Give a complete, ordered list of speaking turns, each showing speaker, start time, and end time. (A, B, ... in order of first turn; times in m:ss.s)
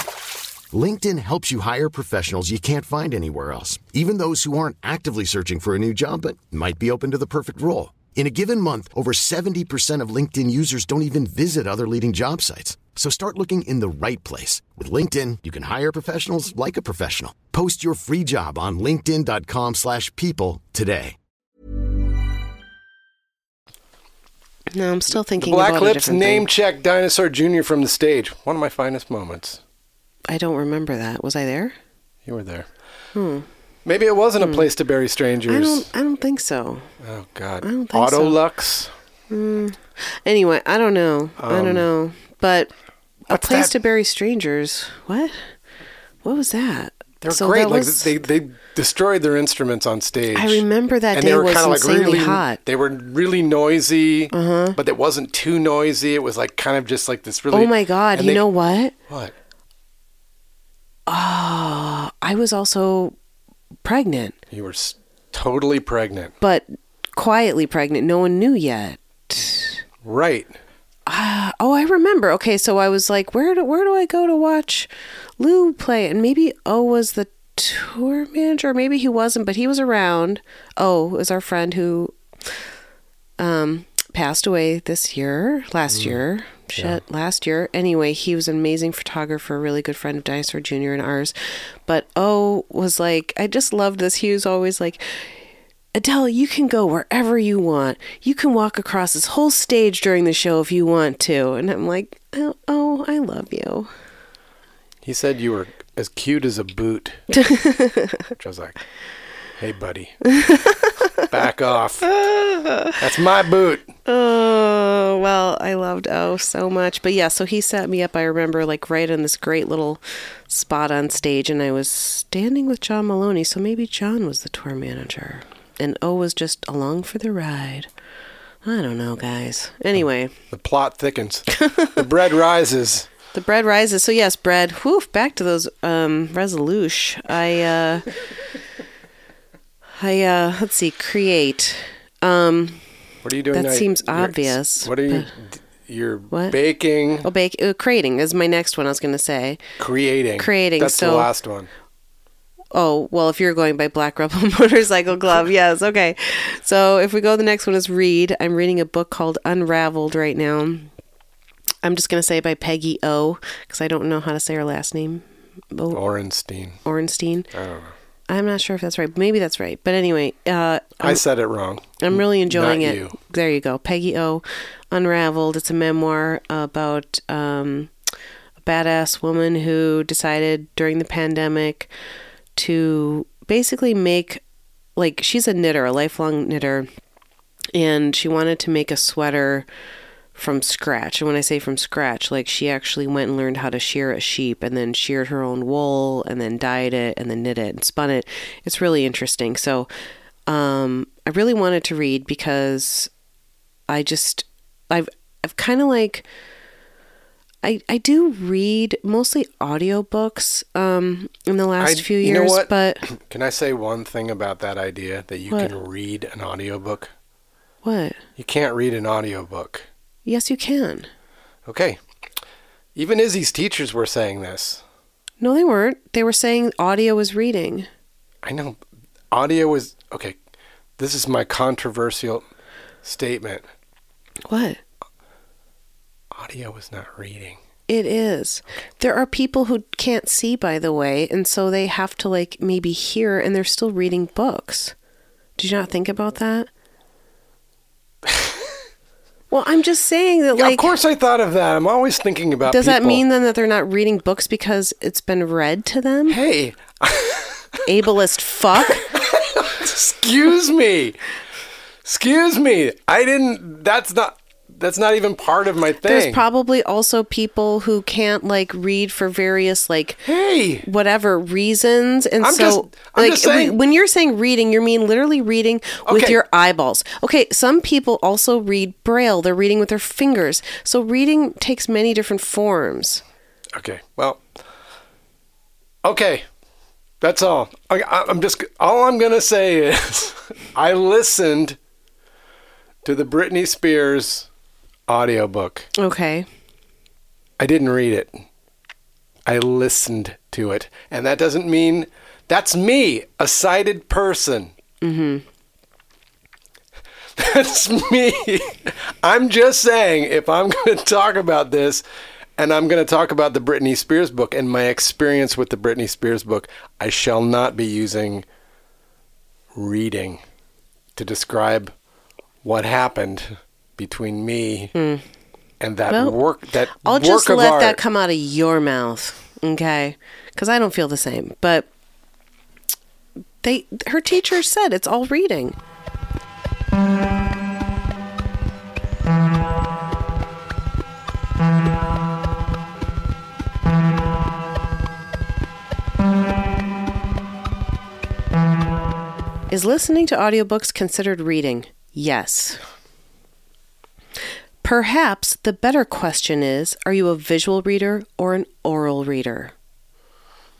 0:00.7-0:21.2 A
0:24.7-0:26.5 B
0:25.4-0:29.6 C
0:30.3-0:31.7 B
0:32.2-0:32.7 C
0:33.1-0:33.5 B
0:33.8-0:35.9 C
0:34.4-0:34.7 B
0:35.5-0:36.9 B
0:37.0-0:38.9 C
0:37.6-0:38.4 B
0:39.3-0:42.7 B
0:41.4-0:41.9 C
0:43.3-0:45.5 B
0:43.3-0:43.7 C
0:46.2-0:48.1 B
0:47.2-0:58.4 C
0:50.3-0:52.6 B
0:54.3-0:54.8 B
0:57.5-0:58.9 B
1:01.1-1:03.1 B
1:03.8-1:04.4 B
1:04.5-1:06.3 C
1:06.4-1:09.8 B
1:10.0-1:10.6 C
1:11.0-1:22.1 B
1:23.4-1:31.3 B
1:25.9-1:26.2 C
1:31.8-1:35.3 B
1:35.9-1:43.9 B
1:45.0-1:47.2 C
1:47.3-1:48.2 B
1:48.4-1:48.8 C
1:49.6-1:50.3 C
1:50.3-1:51.2 B
1:51.1-1:52.1 C
1:52.0-1:53.0 B
1:53.0-1:53.9 C
1:54.0-2:07.9 B
2:08.6-2:10.3 B
2:10.5-2:13.1 C
2:11.6-2:12.0 B
2:13.3-2:18.1 B
2:20.0-2:22.8 B
2:23.2-2:27.3 C
2:23.5-2:25.3 B
2:26.3-2:26.6 B
2:27.2-2:29.6 B
2:29.8-2:31.7 C
2:30.4-2:31.3 B
2:32.7-2:40.9 B
2:41.8-2:46.0 B
2:45.9-2:46.8 C
2:46.8-2:47.5 B
2:47.5-2:47.9 C
2:48.3-2:51.2 B
2:51.0-2:53.1 C
2:52.0-2:57.9 B
2:58.6-3:01.9 B
3:02.6-3:04.4 B
3:05.0-3:06.9 B
3:07.7-3:09.7 B
3:10.3-3:19.9 B
3:20.5-3:23.1 B
3:23.9-3:26.2 B
3:27.6-3:33.0 B
3:31.8-3:37.1 C
3:37.8-3:38.2 B
3:38.4-3:39.9 C
3:40.2-3:41.1 B
3:41.6-3:42.0 C
3:43.0-3:44.8 C
3:45.4-3:47.9 B
3:48.4-3:48.8 C
3:49.3-3:50.3 C
3:51.0-3:52.4 C
3:53.0-3:53.6 C
3:54.5-3:54.8 B
3:56.3-3:57.6 C
3:57.9-4:04.9 B
4:05.6-4:06.7 B
4:08.3-4:08.5 C
4:09.5-4:10.9 B
4:10.5-4:13.2 C
4:12.6-4:16.4 B
4:16.3-4:17.8 C
4:17.8-4:19.0 B
4:18.8-4:21.2 C
4:22.0-4:26.4 C
4:26.0-4:30.2 B
4:30.2-4:30.8 C
4:30.8-4:43.2 B
4:32.4-4:33.8 C
4:36.0-4:36.4 C
4:43.7-4:44.4 C
4:46.0-4:46.4 C
4:47.2-4:51.8 C
4:53.0-4:54.5 C
4:55.1-4:55.9 C
4:56.0-4:56.5 B
4:57.6-4:58.4 C
4:59.4-5:04.7 C
5:05.0-5:05.4 B
5:07.4-5:12.0 C
5:12.6-5:18.4 C
5:19.7-5:20.4 C
5:21.2-5:21.9 C
5:22.6-5:24.9 C
5:24.9-5:25.2 B
5:25.8-5:28.0 C
5:26.1-5:26.4 B
5:27.0-5:31.9 B
5:33.6-5:35.8 B
5:49.7-5:52.8 B
5:54.8-5:59.7 B